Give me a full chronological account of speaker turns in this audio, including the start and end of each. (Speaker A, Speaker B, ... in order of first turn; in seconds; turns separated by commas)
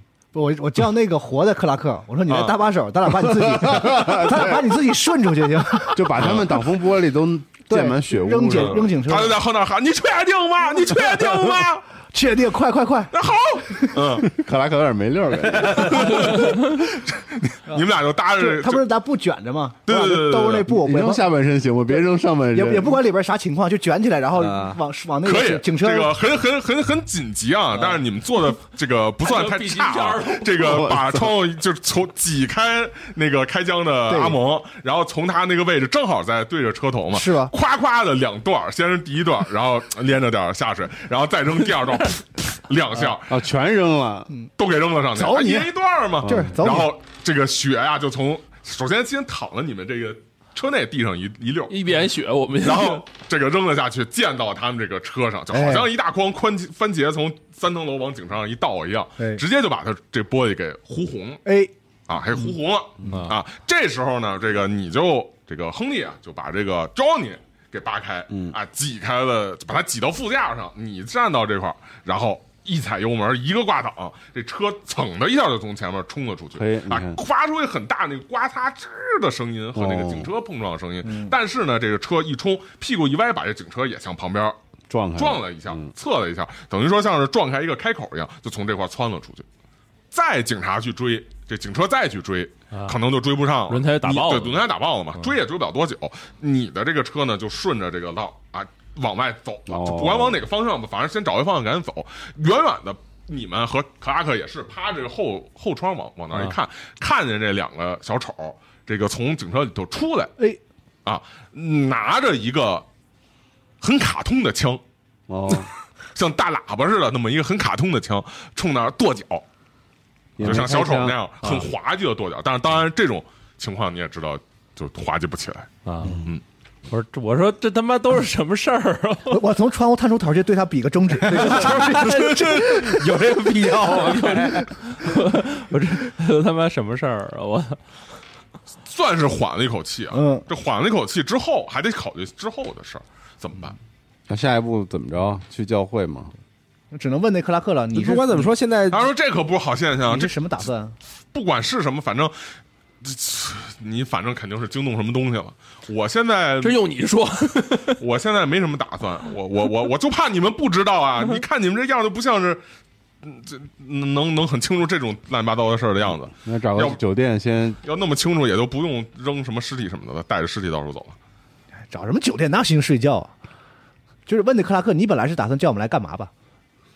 Speaker A: 0.3-6.0, Speaker B: 2.3-2.6, Speaker C: 3.4-4.7, Speaker C: 5.9-8.9, Speaker B: 6.1-6.5, Speaker A: 7.7-9.4, Speaker B: 8.5-11.8, Speaker A: 12.1-13.1, Speaker B: 13.1-14.3, Speaker C: 14.2-16.4, Speaker B: 15.5-18.8, Speaker D: 16.2-16.6, Speaker A: 18.4-21.3, Speaker B: 19.9-20.7, Speaker C: 20.7-23.0, Speaker A: 22.5-26.1, Speaker E: 24.4-24.8, Speaker B: 25.2-43.4, Speaker D: 29.2-30.8, Speaker C: 30.6-31.3, Speaker A: 34.1-34.4, Speaker A: 37.1-37.5, Speaker C: 43.2-44.3, Speaker B: 44.6-51.8, Speaker A: 45.1-46.9, Speaker C: 46.2-46.5, Speaker D: 51.7-53.0, Speaker B: 52.6-61.4, Speaker A: 55.5-55.9, Speaker A: 61.4-61.7, Speaker B: 62.1-84.6, Speaker D: 63.1-63.3, Speaker C: 68.3-68.5, Speaker C: 76.5-77.2, Speaker C: 79.7-80.3, Speaker C: 84.9-85.9, Speaker B: 85.2-89.4, Speaker B: 90.1-110.3, Speaker D: 92.7-93.0, Speaker D: 93.7-94.6, Speaker C: 99.7-100.4, Speaker B: 111.0-112.8, Speaker B: 113.8-114.8, Speaker C: 115.3-115.7, Speaker B: 116.1-119.4, Speaker C: 120.4-121.2, Speaker B: 120.4-125.7, Speaker D: 125.8-126.2, Speaker D: 126.9-129.4, Speaker A: 129.3-133.1, Speaker E: 131.3-134.7, Speaker D: 133.7-137.8, Speaker B: 138.8-143.8, Speaker A: 140.1-140.5, Speaker C: 144.3-146.3, Speaker A: 146.9-148.5, Speaker E: 147.9-149.1, Speaker B: 148.9-150.3, Speaker A: 150.1-150.9, Speaker B: 151.3-156.8, Speaker D: 156.6-158.0, Speaker B: 158.0-162.6, Speaker B: 163.2-167.0, Speaker C: 166.3-167.8, Speaker B: 167.8-171.2, Speaker A: 171.8-173.3, Speaker A: 174.3-176.3